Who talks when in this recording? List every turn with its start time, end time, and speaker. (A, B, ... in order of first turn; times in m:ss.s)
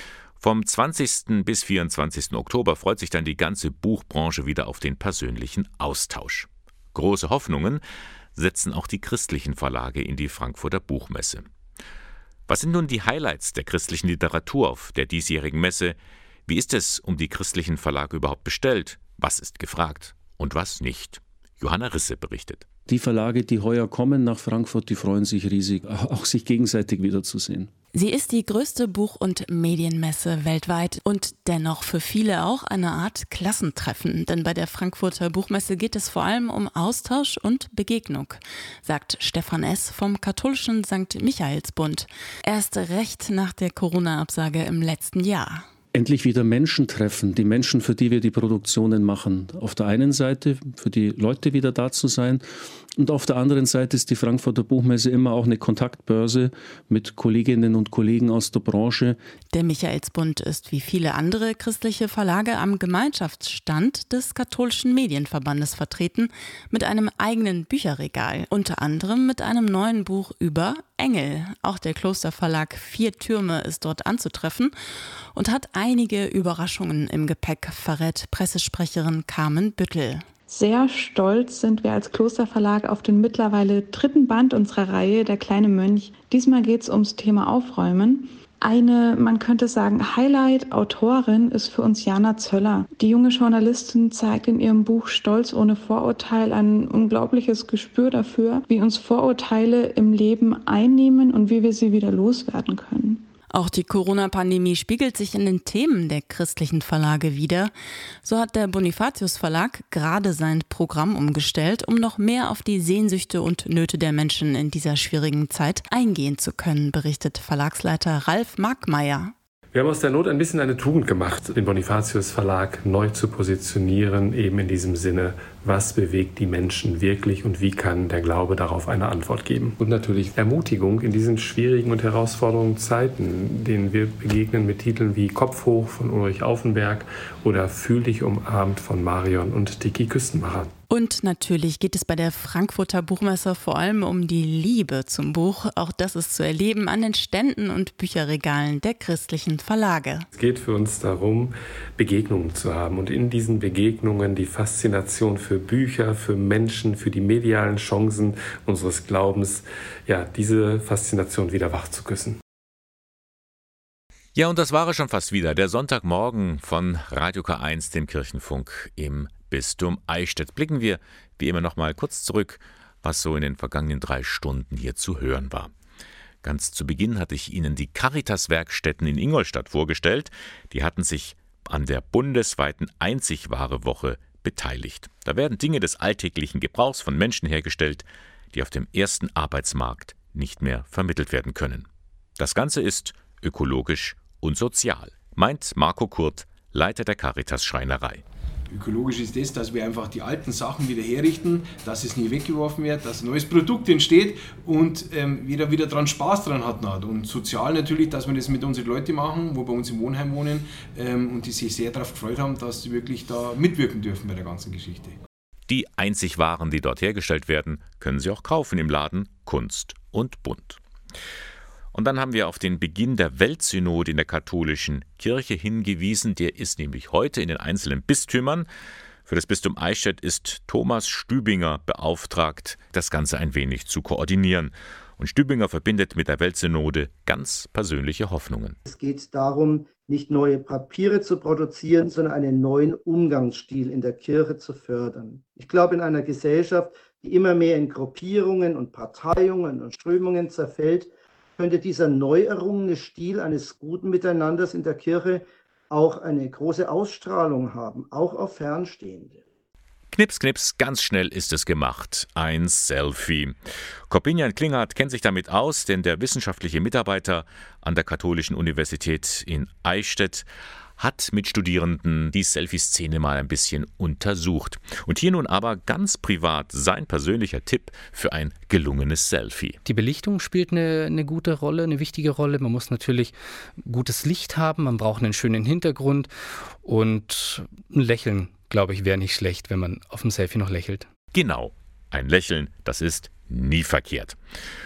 0:00.4-0:07.8 A
0:08.3-0:11.4 A
0:12.5-0:22.6 A
0:22.9-0:27.7 B
0:27.9-0:45.7 C
0:45.9-0:59.2 B
0:59.5-1:14.7 C
1:15.3-1:20.3 C
1:20.5-1:43.2 D
1:43.5-1:47.7 C
1:48.2-1:59.3 C
1:59.7-2:20.7 E
2:20.9-2:30.3 C
2:30.3-2:42.4 E
2:44.3-2:55.7 A
2:56.4-3:18.2 A
3:18.7-3:35.2 F
3:35.7-3:40.8 A
3:41.9-3:48.7 A
3:49.2-3:58.8 A
3:58.8-4:19.4 G
4:20.1-4:23.6 A
4:24.1-4:30.4 A
4:31.0-4:39.8 A
4:39.8-4:46.3 H
4:46.8-4:51.1 H
4:51.3-4:54.4 A